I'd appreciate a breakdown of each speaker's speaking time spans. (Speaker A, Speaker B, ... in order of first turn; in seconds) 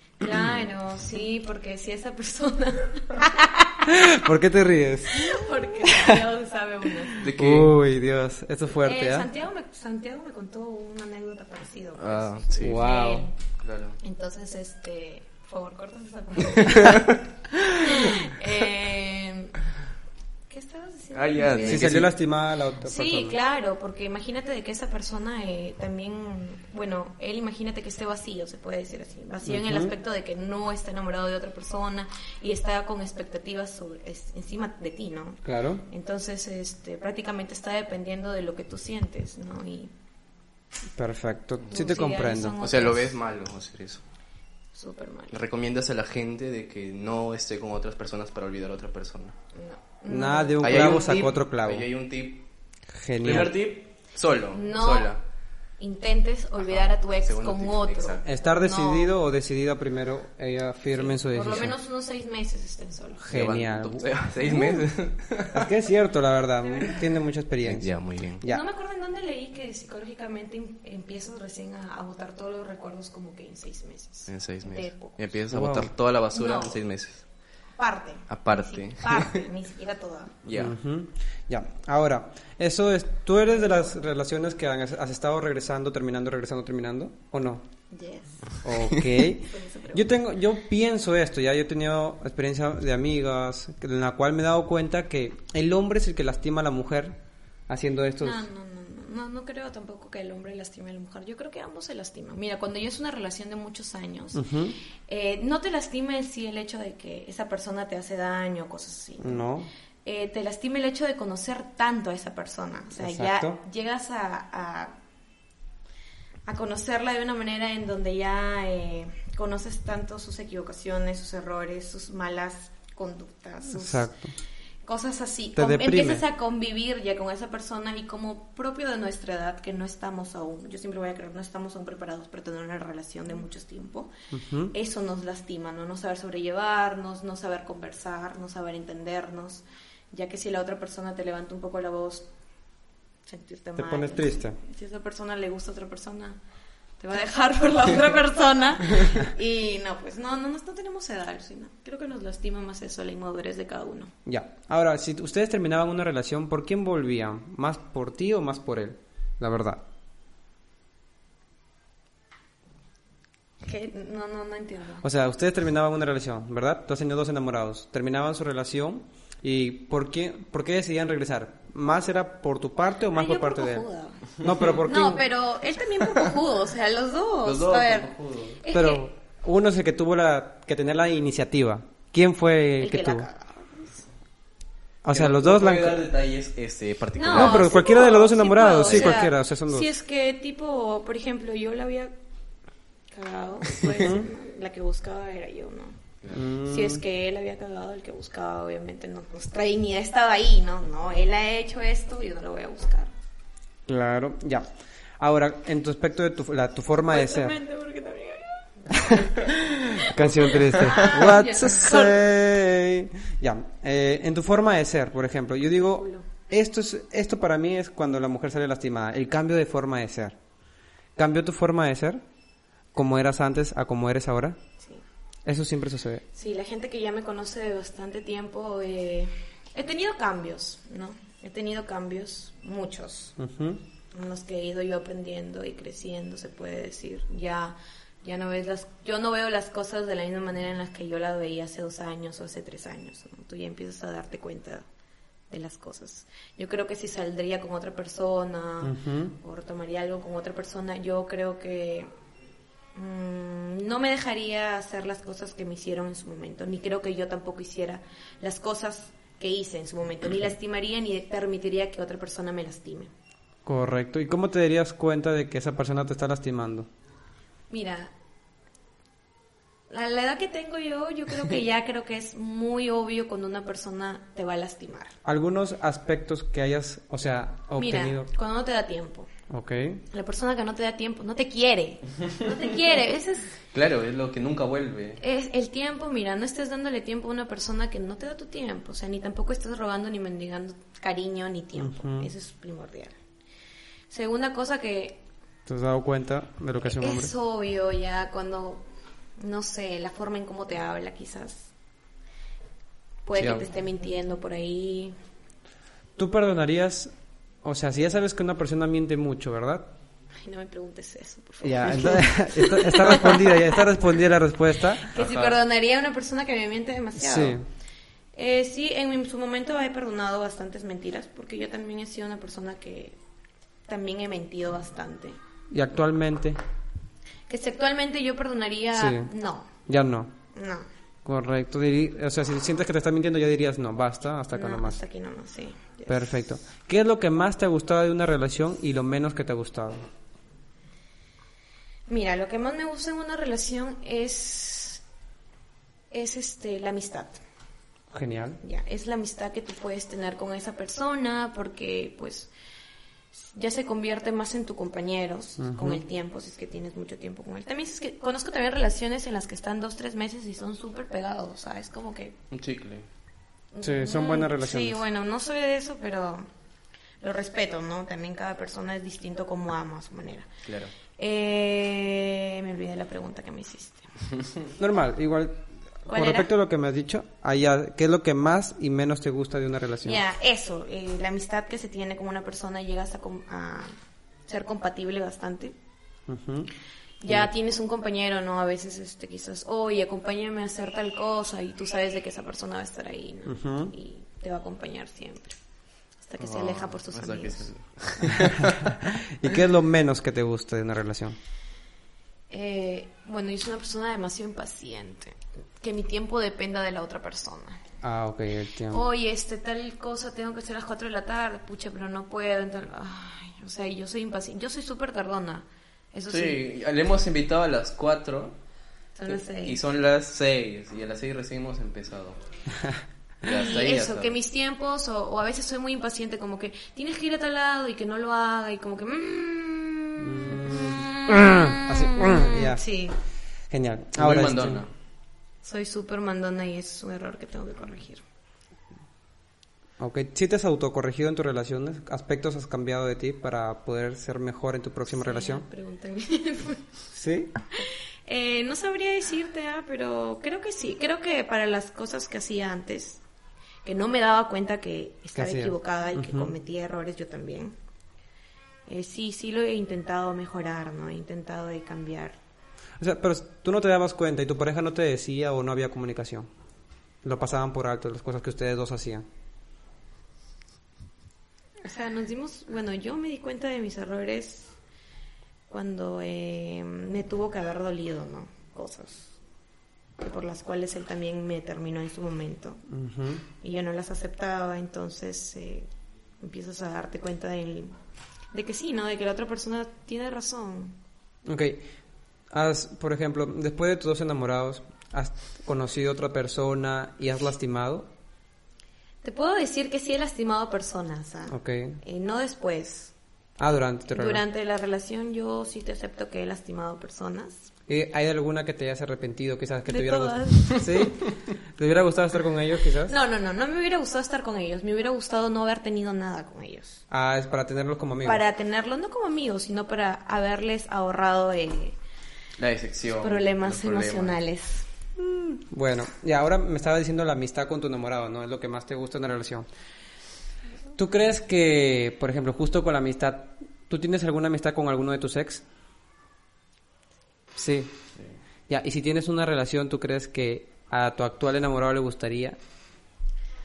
Speaker A: 0.2-3.8, 5.1-7.2, 8.8-13.3, 14.0-17.2, 17.8-19.6, 20.5-22.1, 22.8-39.9, 41.7-43.1, 44.7-45.4, 49.5-50.9, 54.5-55.1, 55.8-59.2, 61.0-63.3, 64.5-64.9, 66.6-67.1, 68.5-75.2, 76.3-76.8, 77.8-80.4, 87.9-88.6, 89.2-90.1, 98.2-104.5, 105.1-109.5, 110.0-115.0, 116.5-124.1, 124.8-134.1, 134.7-142.3, 143.3-146.4, 147.0-154.1, 163.6-165.0, 173.1-179.1, 182.8-184.1, 187.2-192.1, 193.1-196.0, 196.6-203.1, 207.1-212.2, 215.9-216.2, 226.3-233.4, 234.1-244.8, 245.5-252.1, 252.9-263.1, 267.7-268.1, 269.9-275.1, 277.7-279.3, 280.1-283.6, 285.2-293.1, 294.1-295.2, 296.8-298.8, 299.4-301.7, 303.2-305.1, 310.4-313.8, 315.0-317.6, 318.3-323.2, 323.9-325.4, 327.5-329.7, 330.5-330.9, 334.5-336.3, 342.1-345.0, 346.1-347.4, 348.6-352.5, 353.3-362.4, 363.7-366.5, 367.2-370.5, 371.2-374.1, 376.1-376.5, 380.0-383.9, 384.5-385.7, 387.2-395.6, 396.2-397.7, 402.5-407.8, 408.9-416.6, 419.2-419.8, 423.4-433.2, 435.6-438.2, 445.1-446.8, 447.8-453.2, 453.8-457.7, 458.9-462.4, 471.8-474.7, 475.7-479.3, 480.2-482.8, 483.6-485.9, 486.4-487.9, 488.5-491.0, 499.2-503.1, 504.1-507.7, 509.9-511.0, 513.0-517.0, 518.2-522.0, 523.2-524.9
Speaker B: 0.3-0.6, 7.2-7.8, 12.0-12.8, 13.6-14.0, 16.6-17.1, 21.1-22.1, 42.6-44.0, 45.3-49.3, 50.6-52.5, 53.2-55.2, 56.6-58.2, 63.3-65.7, 67.6-68.4, 74.3-77.2, 78.3-79.5, 80.5-80.7, 177.4-178.6, 185.1-188.0, 188.8-189.2, 283.7-285.2, 315.1-315.6, 362.5-363.1, 370.7-370.9, 396.4-398.8, 416.3-418.6, 419.3-422.4, 423.4-424.3, 434.2-434.9, 522.6-524.4
Speaker C: 3.8-6.1, 7.2-9.3, 12.6-13.3, 21.6-23.4, 29.4-29.9, 35.5-35.8, 41.0-42.6, 50.1-51.9, 53.0-53.5, 58.2-61.7, 63.2-64.1, 65.5-68.6, 75.5-75.9, 80.5-87.7, 88.6-98.4, 104.3-104.8, 109.2-109.7, 113.0-113.6, 123.7-124.3, 125.5-126.2, 134.3-134.7, 143.8-144.6, 154.3-159.8, 165.0-173.9, 174.4-175.2, 178.7-183.3, 185.0-186.1, 187.3-189.9, 193.9-194.3, 196.3-197.0, 203.9-204.7, 205.2-207.6, 208.9-220.4, 221.2-222.2, 222.9-224.6, 225.4-226.2, 233.4-233.8, 248.8-249.3, 263.7-266.9, 275.2-278.3, 279.5-280.0, 291.8-292.3, 295.7-297.3, 303.4-303.6, 306.2-307.1, 307.6-309.9, 311.6-315.1, 317.2-317.6, 325.7-326.6, 328.9-329.3, 329.9-330.4, 331.2-335.0, 336.1-340.1, 348.1-348.6, 355.6-356.0, 363.8-365.0, 374.8-380.2, 386.3-386.7, 393.4-393.9, 398.7-401.4, 408.0-409.0, 430.2-432.8, 433.7-434.8, 440.0-445.7, 447.1-447.5, 455.3-456.5, 463.0-466.5, 467.2-469.2, 482.9-483.4, 491.4-491.8, 492.5-498.1, 501.5-502.0, 503.6-504.4, 507.9-513.1, 517.1-518.4, 525.2-529.7, 531.0-535.6, 537.5-537.9, 538.7-542.6